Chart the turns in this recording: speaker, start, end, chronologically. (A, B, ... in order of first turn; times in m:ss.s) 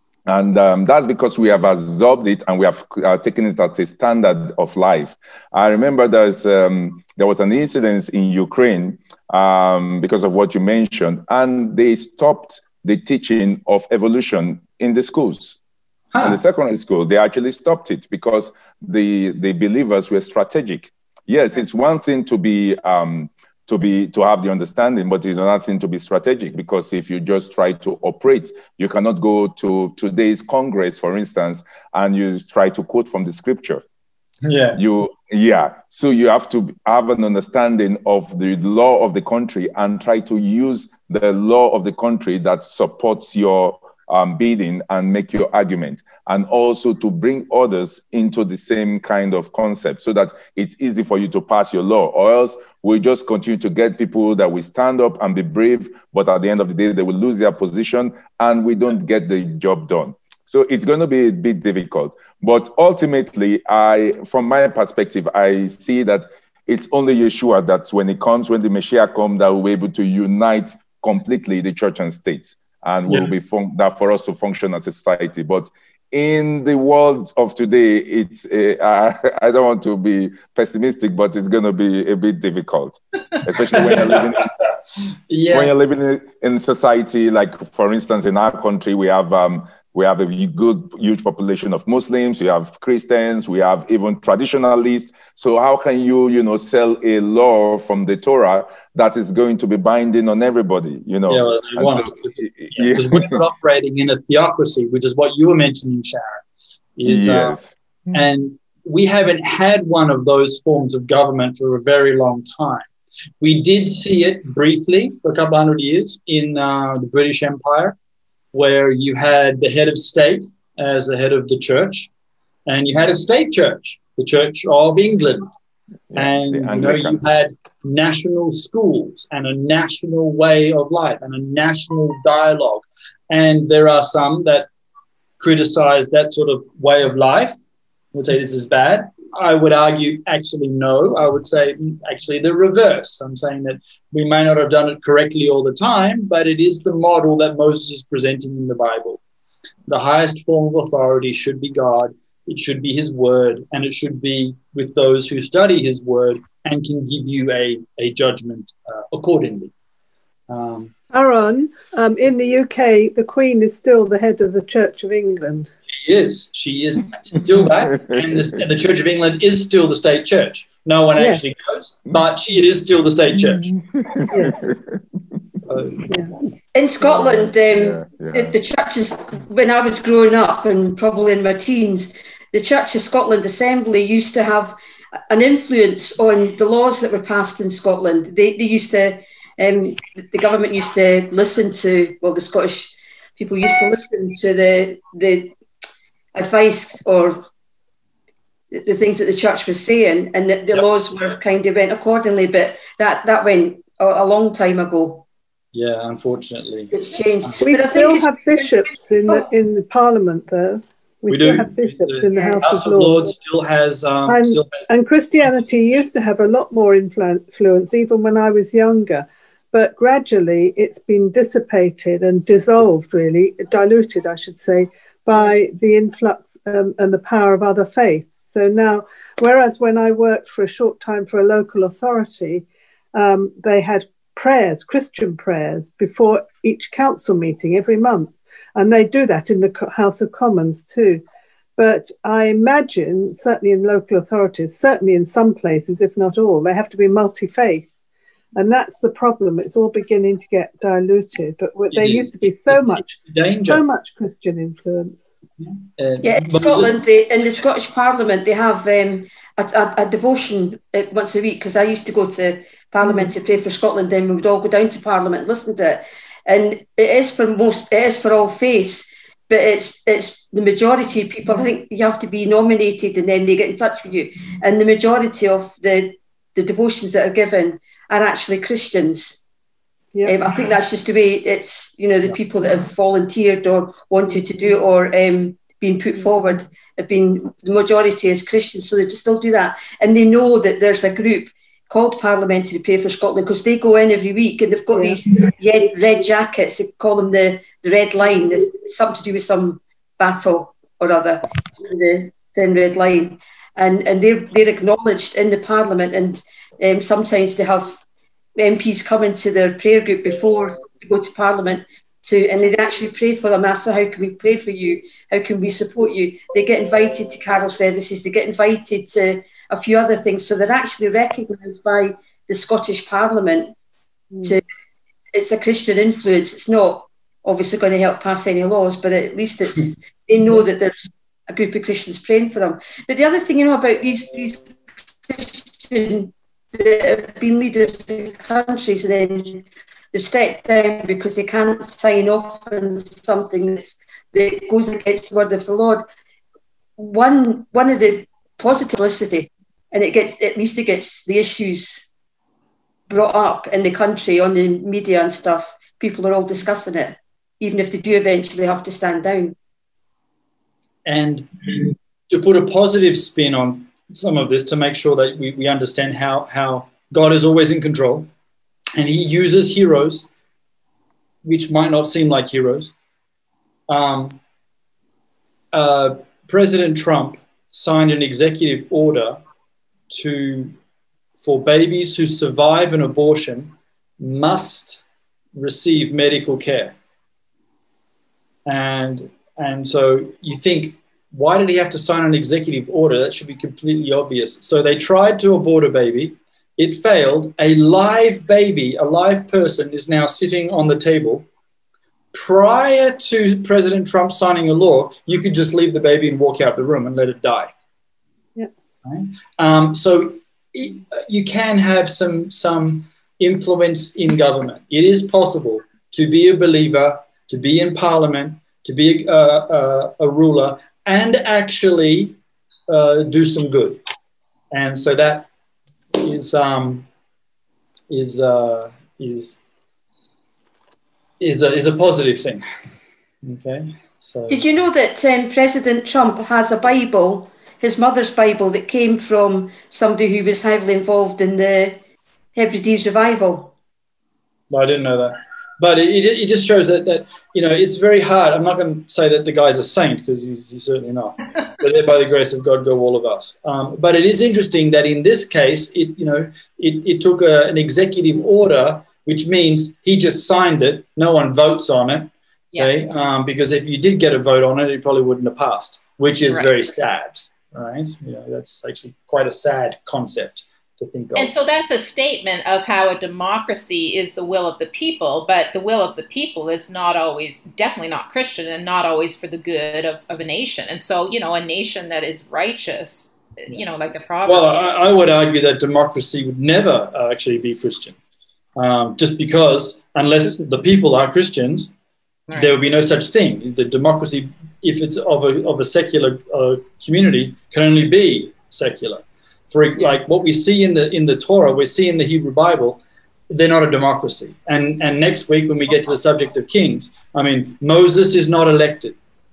0:00.3-0:15.6 A
0:16.1-0:16.4 B
0:16.2-0:33.8 A
0:34.4-0:34.8 B
0:34.8-1:24.5 A
1:23.7-1:24.4 B
1:25.3-1:25.7 B
1:25.5-1:43.4 A
1:41.3-1:46.4 B
1:47.0-1:47.6 B
1:47.0-1:48.2 A
1:48.1-1:52.9 B
1:53.4-1:58.0 B
1:58.5-2:02.1 B
2:02.7-2:05.5 B
2:06.1-2:14.7 B
2:06.1-2:07.2 A
2:15.4-2:17.6 B
2:18.1-2:29.2 B
2:29.9-2:39.7 B
2:40.5-2:40.9 B
2:41.1-2:45.7 C
2:45.9-2:53.7 B
2:47.8-2:48.6 A
2:51.2-2:51.5 C
2:53.5-2:55.0 A
2:54.3-2:54.7 C
2:55.7-2:56.0 B
2:56.1-2:56.3 C
2:56.8-3:04.8 D
2:57.0-2:58.6 A
3:05.3-3:15.6 D
3:16.4-3:17.4 D
3:18.7-3:25.3 D
3:25.7-3:26.9 B
3:26.9-3:29.5 D
3:27.6-3:33.4 C
3:31.3-3:34.9 B
3:32.3-3:32.6 D
3:34.3-4:01.2 C
4:01.8-4:07.9 C
4:08.6-4:15.3 C
4:11.9-4:13.8 B
4:15.6-4:17.0 B
4:16.2-4:39.4 D
4:23.0-4:23.3 C
4:40.2-5:08.0 D
4:54.9-4:55.2 C
5:08.6-5:23.8 D
5:25.3-5:46.0 D
5:47.0-5:52.1 D
5:53.1-5:59.6 D
6:01.1-6:08.3 B
6:09.0-6:10.3 B
6:11.4-6:12.9 B
6:13.9-6:14.4 B
6:15.7-6:19.4 B
6:20.1-6:20.8 B
6:21.4-6:25.0 B
6:25.6-6:27.0 B
6:28.7-6:41.5 B
6:42.3-6:47.7 B
6:49.0-7:02.4 B
7:02.9-7:04.0 B
7:04.7-7:05.5 B
7:06.2-7:07.1 B
7:08.1-7:09.6 B
7:11.4-7:12.6 B
7:13.4-7:14.6 B
7:14.5-7:22.0 D
7:22.6-7:23.7 D
7:24.7-7:51.5 B
7:46.5-7:46.8 E
7:51.4-8:04.9 E
8:04.4-8:08.2 B
8:08.8-8:11.9 B
8:12.5-8:12.8 E
8:12.5-8:29.2 B